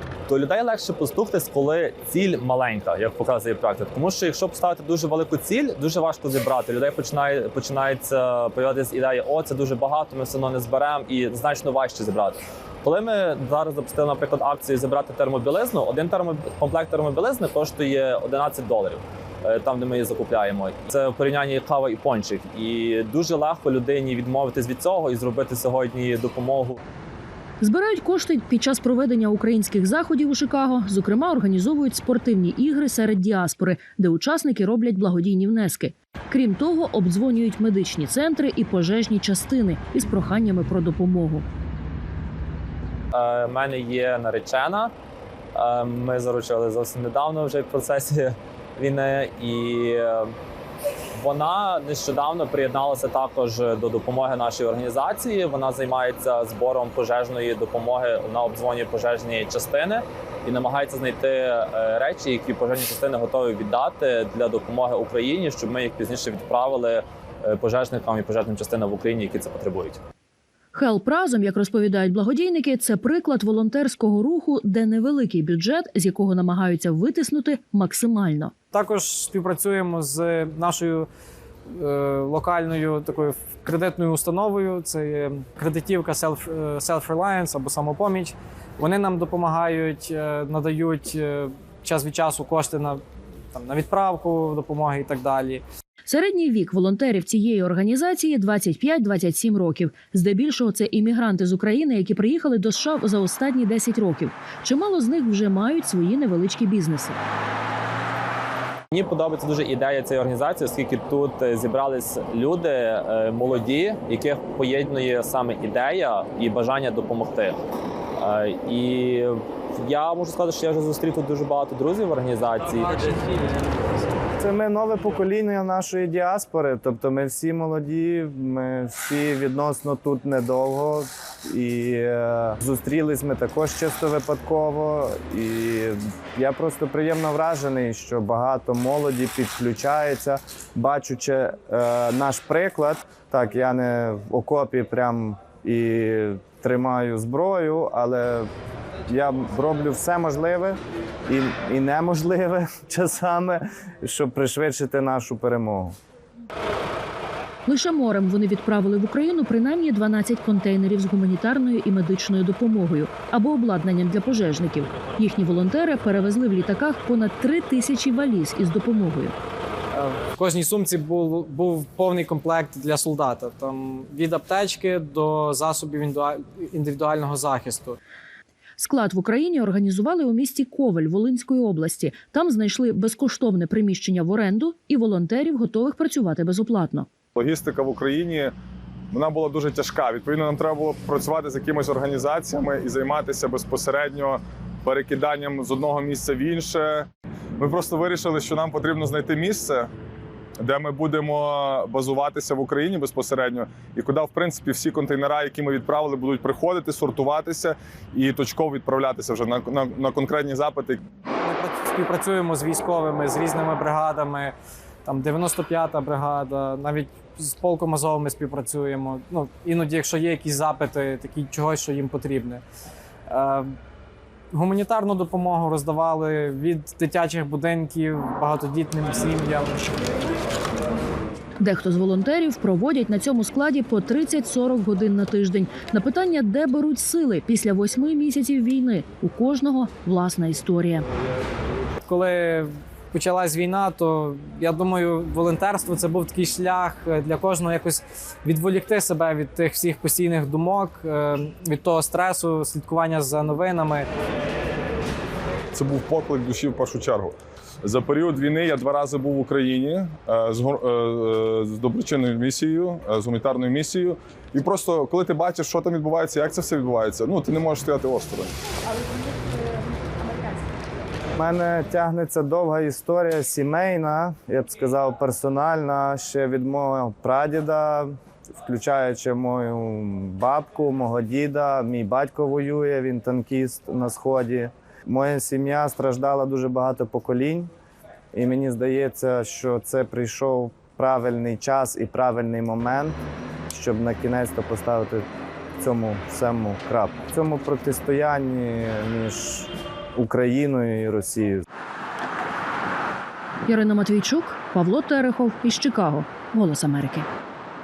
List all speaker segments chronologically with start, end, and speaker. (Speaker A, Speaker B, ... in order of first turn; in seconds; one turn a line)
Speaker A: 0.3-26.8
Speaker B: 27.6-41.5
Speaker A: 43.1-44.9
Speaker A: 45.5-50.3
Speaker A: 51.1-70.0
Speaker B: 70.7-78.5
Speaker C: 78.7-81.1
Speaker C: 81.8-93.0
Speaker C: 93.5-95.6
Speaker B: 96.1-107.2
Speaker A: 108.9-117.6
Speaker A: 118.2-123.2
Speaker C: 122.8-123.7
Speaker D: 124.4-148.5
Speaker D: 149.1-156.0
Speaker B: 157.7-169.3
Speaker C: 169.9-178.0
Speaker B: 178.8-187.1
Speaker E: 187.4-188.5
Speaker E: 189.1-197.1
Speaker E: 197.6-199.9
Speaker E: 200.6-211.0
Speaker C: 211.3-214.6
Speaker C: 215.1-222.6
Speaker C: 223.3-223.7
Speaker C: 224.5-230.2
Speaker B: 231.6-241.1
Speaker C: 242.1-254.1
Speaker E: 255.7-268.6
Speaker D: 271.4-287.7
Speaker D: 288.3-293.2
Speaker D: 293.7-295.2
Speaker D: 295.8-301.6
Speaker B: 303.6-307.3